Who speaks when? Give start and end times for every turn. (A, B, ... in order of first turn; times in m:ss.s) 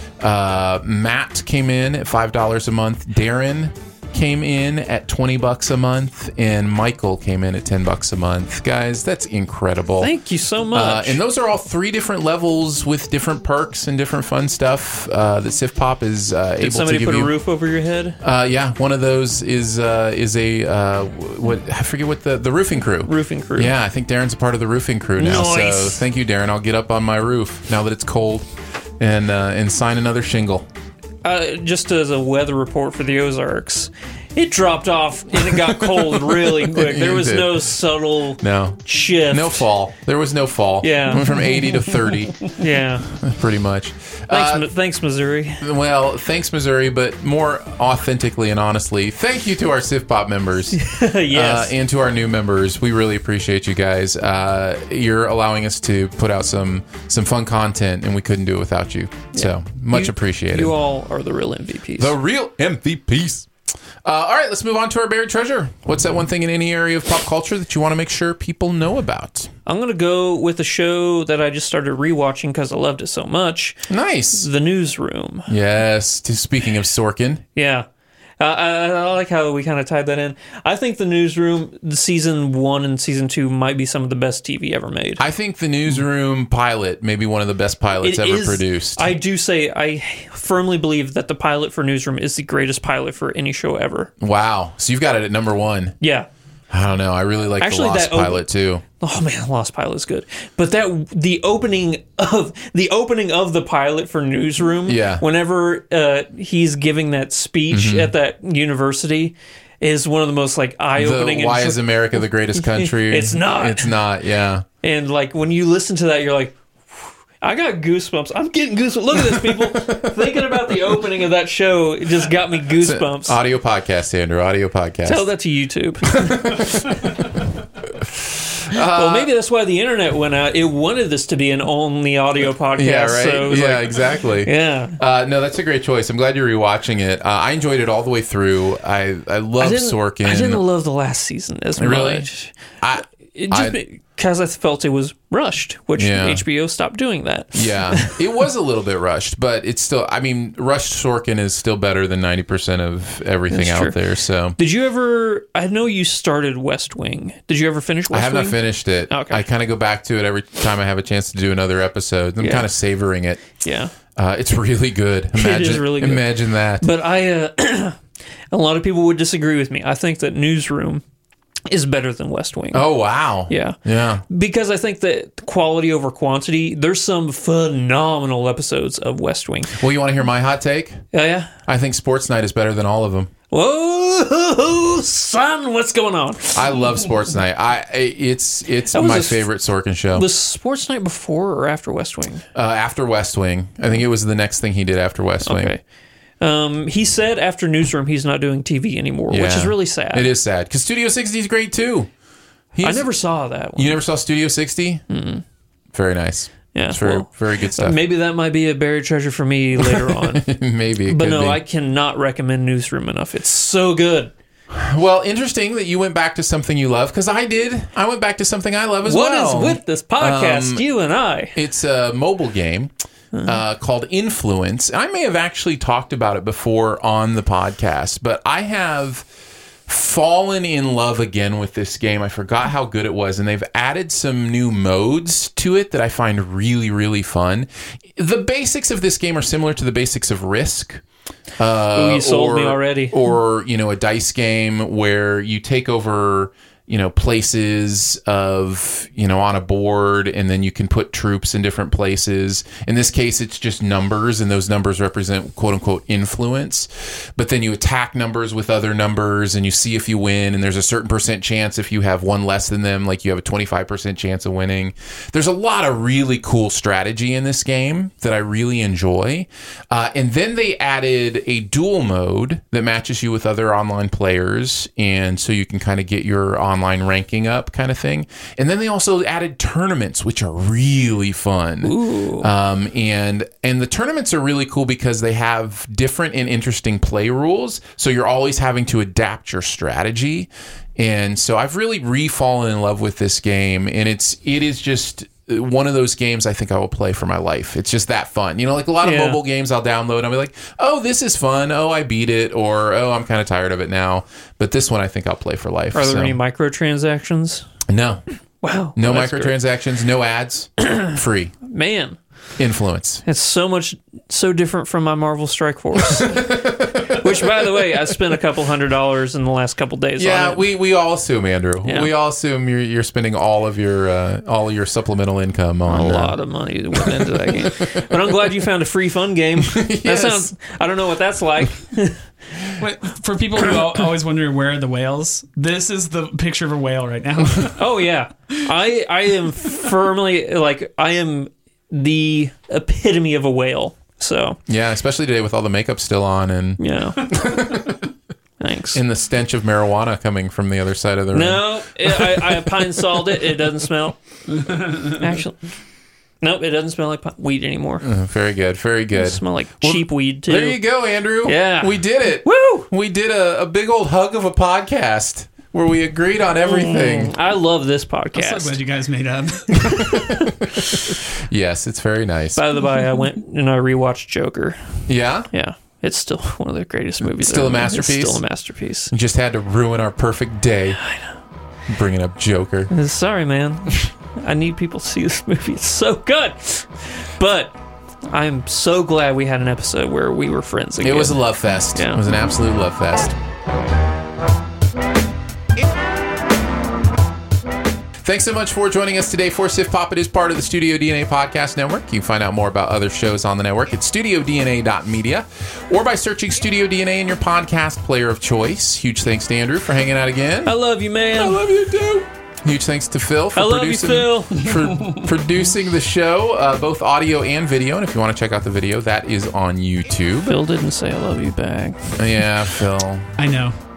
0:00.2-0:10.1 A
0:10.0-0:11.2 B
0:10.7-0:17.3 A
0:16.6-0:18.2 B
0:18.2-0:30.7 A
0:23.0-0:23.7 B
0:25.2-0:26.0 B
0:31.2-0:39.7 B
0:35.4-0:37.7 A
0:38.4-0:42.5 A
0:40.8-0:41.6 B
0:42.5-0:43.1 B
0:43.1-0:44.7 A
0:44.3-0:45.6 B
0:45.6-1:00.8 A
0:50.8-0:51.8 B
0:59.3-1:02.1 B
1:02.0-1:03.5 A
1:04.0-1:09.5 A
1:09.7-1:15.5 B
1:13.9-1:14.5 A
1:15.5-1:17.4 A
1:17.6-1:17.9 B
1:18.4-1:25.2 B
1:25.2-1:29.1 A
1:28.0-1:34.1 B
1:34.2-1:36.0 A
1:36.0-1:36.3 B
1:36.7-1:38.8 A
1:37.6-1:38.4 B
1:39.0-1:54.0 B
1:44.9-1:45.2 A
1:47.7-1:48.1 A
1:51.0-1:54.6 A
1:54.8-2:03.4 B
1:59.2-2:00.2 A
2:02.8-2:05.3 A
2:05.0-2:07.3 B
2:06.2-2:06.8 A
2:08.7-2:09.3 A
2:08.9-2:15.0 B
2:12.7-2:20.6 A
2:19.6-2:22.5 B
2:21.8-2:22.3 A
2:22.8-2:23.8 A
2:23.4-2:28.2 B
2:26.0-2:26.4 A
2:27.5-2:34.6 A
2:33.5-2:34.0 B
2:34.6-2:39.4 B
2:38.1-2:43.5 A
2:42.4-2:42.7 B
2:43.6-2:43.9 B
2:44.2-2:46.9 A
2:45.4-2:48.0 B
2:48.5-2:51.0 B
2:51.7-2:52.9 B
2:52.7-2:54.2 A
2:53.5-2:53.8 B
2:54.3-2:59.8 B
2:59.8-3:01.0 A
3:01.1-3:01.5 B
3:01.7-3:03.3 A
3:03.5-3:06.9 B
3:06.5-3:10.3 A
3:08.9-3:09.5 B
3:10.1-3:12.4 B
3:12.6-3:15.7 A
3:15.4-3:15.8 B
3:16.4-3:20.3 B
3:19.3-3:22.1 A
3:22.7-3:23.1 A
3:22.8-3:24.0 B
3:23.8-3:25.0 A
3:25.1-3:25.4 B
3:25.9-3:28.0 A
3:26.7-3:30.5 B
3:29.8-3:31.6 A
3:31.1-3:34.3 B
3:34.7-3:40.8 A
3:39.0-3:41.6 B
3:41.6-3:42.9 A
3:43.4-3:49.3 A
3:49.9-4:01.0 A
4:01.6-5:06.4 A
4:02.0-4:03.2 B
4:41.8-4:42.5 B
4:59.0-4:59.4 B
5:05.9-5:07.6 B
5:07.9-5:08.2 A
5:08.6-5:09.6 B
5:09.0-5:11.6 A
5:11.7-5:12.2 B
5:12.6-5:13.2 A
5:13.3-5:20.6 B
5:16.0-5:17.6 A
5:20.2-5:26.4 A
5:21.8-5:22.1 B
5:25.9-5:32.2 B
5:27.0-5:27.7 A
5:29.6-5:30.5 A
5:32.8-5:37.8 C
5:37.8-5:44.6 B
5:44.7-5:48.0 A
5:46.8-5:47.7 B
5:48.6-5:49.0 B
5:48.9-5:52.9 A
5:51.3-5:54.2 B
5:54.5-5:55.2 C
5:55.0-5:55.6 B
5:56.4-5:58.1 B
5:58.0-6:07.3 A
5:59.1-6:00.8 B
6:01.4-6:02.9 B
6:06.6-6:08.8 B
6:08.3-6:10.2 C
6:09.8-6:10.5 A
6:11.4-6:12.6 A
6:12.6-6:15.0 B
6:15.1-6:15.5 A
6:15.5-6:19.1 B
6:17.4-6:18.4 A
6:19.1-6:21.0 A
6:21.9-6:22.9 A
6:22.9-6:27.8 B
6:28.3-6:31.4 B
6:31.0-6:33.4 A
6:31.9-6:32.2 B
6:38.2-6:50.8 A
6:50.7-6:51.7 B
6:51.3-7:00.6 A
6:53.6-6:54.8 B
6:54.7-6:55.2 C
7:00.4-7:02.4 B
7:02.2-7:03.3 A
7:03.4-7:03.8 C